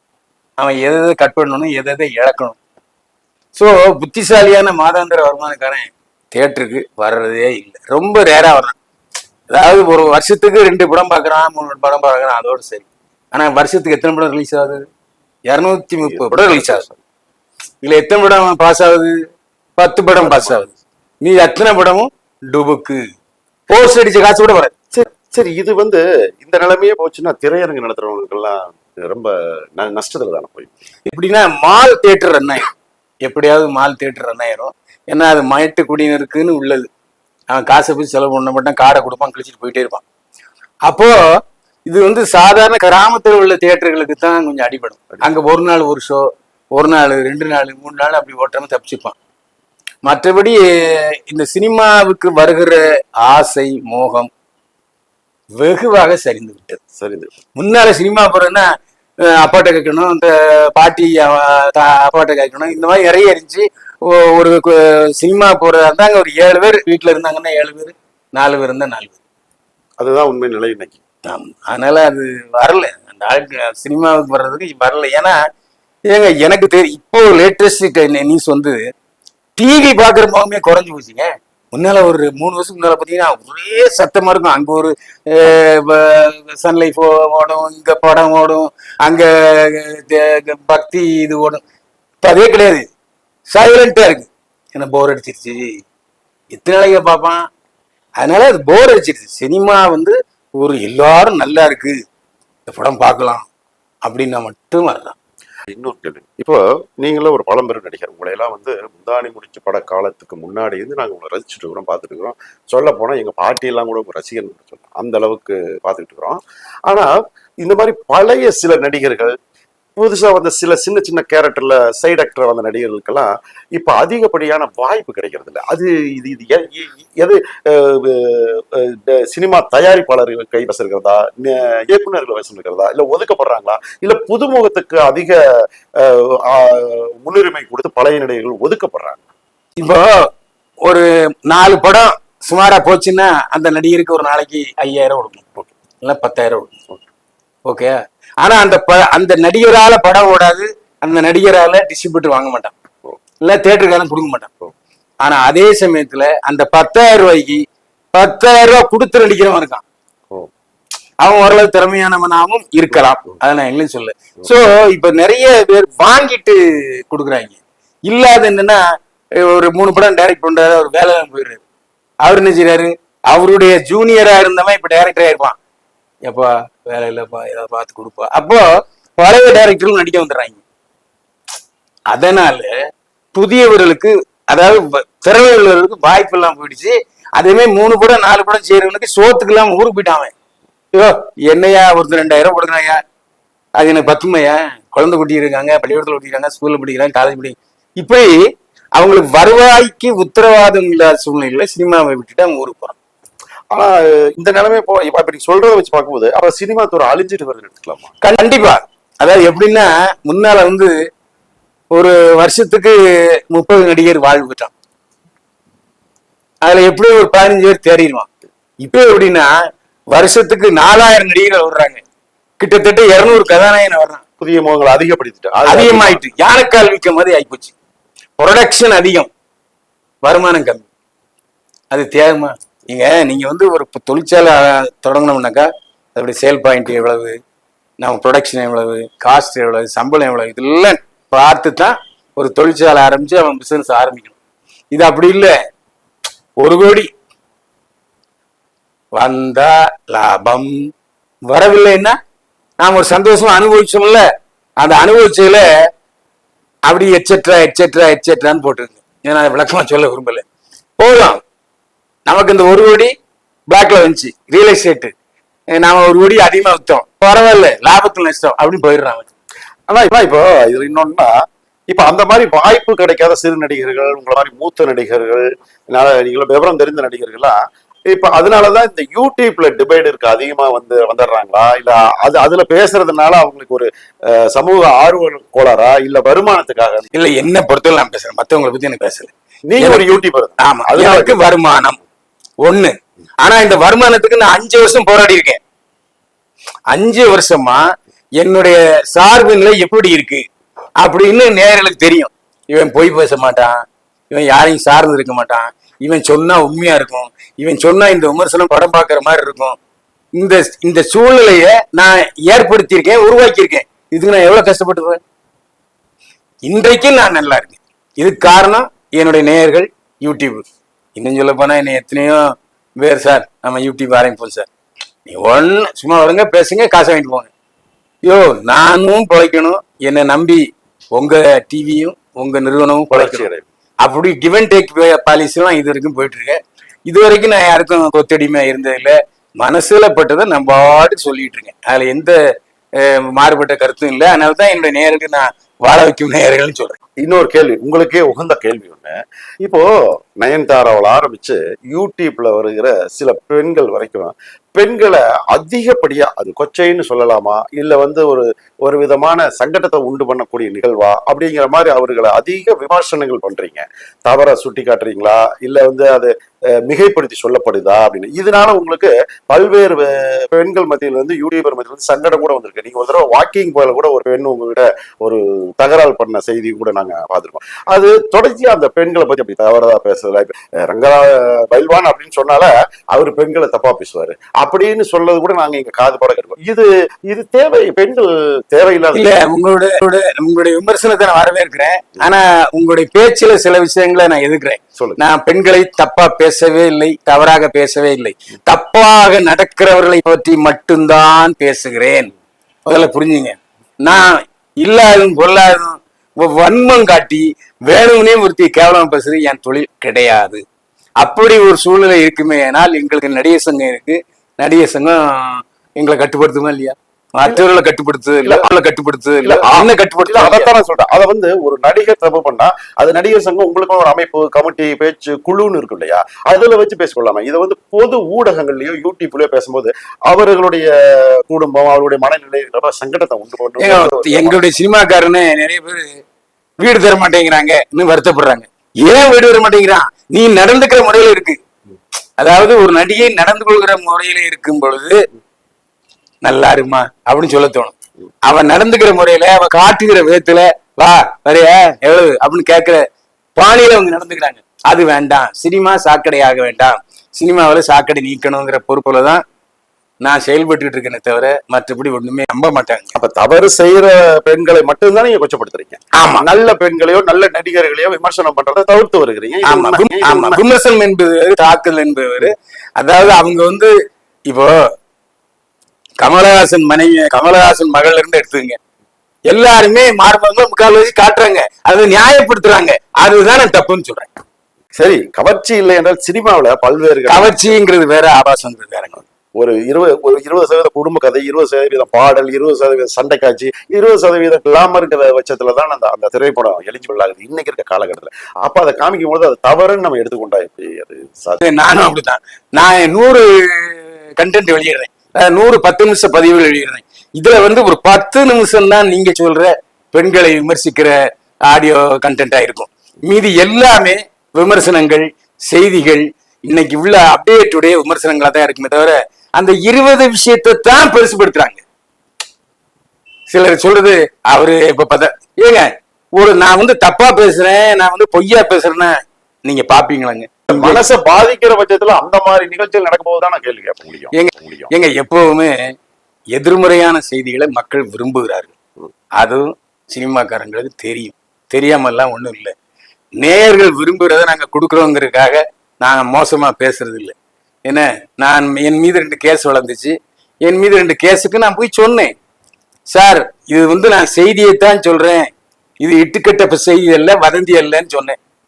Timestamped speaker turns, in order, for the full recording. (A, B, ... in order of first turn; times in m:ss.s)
0:00.6-0:02.6 A
0:03.6-0:08.8 A
0:09.5-0:14.8 A
0:15.5-0:16.8 A
0:16.0-0:17.0 B
0:17.8-0:19.2 A
0:19.8-0:23.0 A
0:20.2-0:20.7 B
0:23.7-0:24.7 A
0:24.9-0:30.7 B
0:31.1-0:32.7 A
0:33.2-0:36.9 A
0:37.5-0:40.0 A
0:40.9-0:41.2 A
0:41.9-0:49.2 A
0:50.0-0:54.3 A
0:55.6-0:56.7 A
0:56.7-0:57.3 B
0:57.6-0:58.7 A
0:59.2-1:09.2 A
1:10.0-1:11.0 B
1:11.2-1:15.4 A
1:16.1-1:18.8 A
1:19.6-1:31.6 A
1:32.2-1:32.8 A
1:33.5-1:35.8 A
1:36.5-1:37.4 A
1:38.2-1:42.0 A
1:42.7-1:43.5 A
1:44.0-1:45.2 A
1:45.7-1:59.3 B
2:00.0-2:15.4 B
2:16.0-2:19.2 B
2:19.8-2:20.1 A
2:20.8-2:25.4 A
2:26.0-2:26.8 A
2:27.7-2:32.8 A
2:33.4-2:34.5 A
2:35.2-2:39.8 A
2:41.2-2:48.8 A
2:49.4-2:51.6 A
2:52.2-2:55.6 A
2:56.3-3:00.6 A
3:02.1-3:02.8 A
3:03.3-3:10.3 A
3:10.9-3:13.0 A
3:13.8-3:18.4 A
3:19.0-3:23.0 A
3:23.7-3:28.1 B
3:28.2-3:31.0 A
3:31.9-3:34.7 A
3:36.6-3:38.3 A
3:38.8-3:39.5 A
3:40.1-3:42.0 A
3:42.6-3:44.2 A
3:44.4-3:46.2 B
3:45.7-3:47.8 A
3:48.4-3:49.3 A
3:50.2-3:50.9 A
3:51.9-3:57.4 A
3:58.0-4:04.4 A
4:04.9-4:05.6 A
4:06.6-4:07.1 A
4:09.2-4:10.8 A
4:11.5-4:12.2 A
4:12.8-4:14.2 A
4:14.8-4:15.8 A
4:16.9-4:20.4 A
4:21.0-4:21.4 A
4:22.3-4:23.1 A
4:23.7-4:25.1 A
4:25.7-4:29.3 A
4:29.9-4:31.3 B
4:31.9-4:37.6 B
4:38.1-4:47.1 B
4:47.1-4:52.0 A
4:49.7-4:51.4 B
4:52.6-4:55.6 A
4:56.9-4:57.8 A
4:58.4-5:00.4 A
5:01.0-5:09.8 A
5:10.4-5:15.2 A
5:16.7-5:20.6 A
5:21.2-5:24.7 A
5:25.3-5:27.5 A
5:28.2-5:33.5 A
5:33.1-5:33.6 B
5:34.0-5:42.4 A
5:43.0-5:47.0 A
5:47.2-6:29.3 B
6:29.2-6:42.3 A
6:42.9-6:50.6 A
6:51.2-7:00.7 A
6:59.4-7:14.7 B
7:13.8-7:16.2 A
7:16.8-7:21.6 A
7:22.4-7:25.2 A
7:26.4-7:33.0 A
7:33.6-7:39.4 A
7:40.2-7:43.2 A
7:43.2-7:50.6 B
7:46.2-7:46.5 A
7:49.6-7:53.9 A
7:54.5-7:54.8 A
7:56.2-7:58.8 A
7:59.5-8:04.3 A
8:05.0-8:07.8 B
8:07.3-8:09.2 A
8:09.6-8:21.6 B
8:21.6-8:41.8 A
8:43.5-8:51.0 A
8:50.7-8:54.9 B
8:54.3-8:55.9 A
8:56.5-8:58.7 A
8:59.4-9:02.7 A
9:03.4-9:12.3 A
9:13.1-9:15.5 A
9:16.0-9:18.4 A